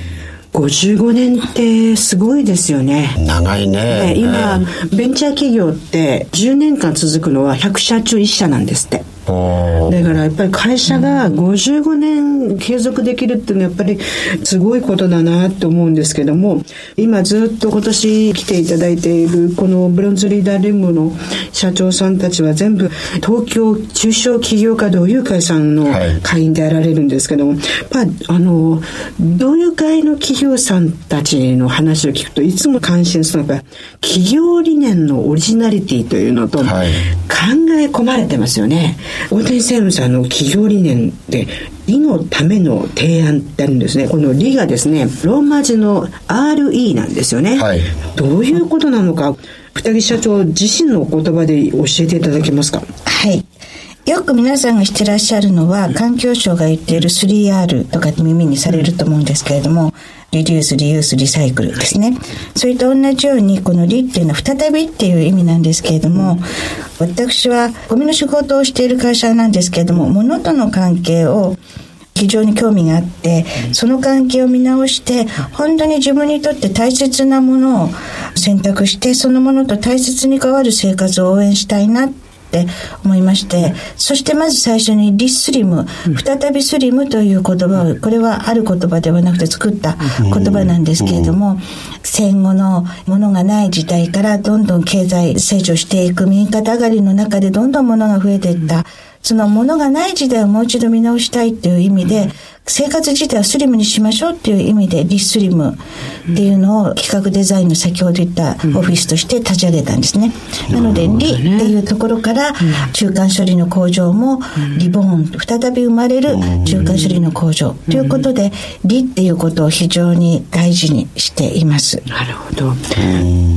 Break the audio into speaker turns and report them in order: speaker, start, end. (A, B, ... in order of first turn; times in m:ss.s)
0:00.5-0:03.2 A
0:03.2-0:04.6 B
0:03.9-0:09.1 A
0:09.3-0:10.0 B
0:09.9-0:52.9 A
0:25.9-0:26.2 B
0:36.6-0:37.0 B
0:47.6-0:47.9 B
0:53.1-0:53.4 C
0:54.1-1:06.4 C
1:07.0-1:11.6 C
1:12.2-1:45.8 C
1:46.3-2:02.0 C
1:50.7-1:51.0 B
1:51.1-1:51.7 A
1:56.7-1:57.2 A
2:02.1-2:03.0 A
2:03.0-2:03.3 B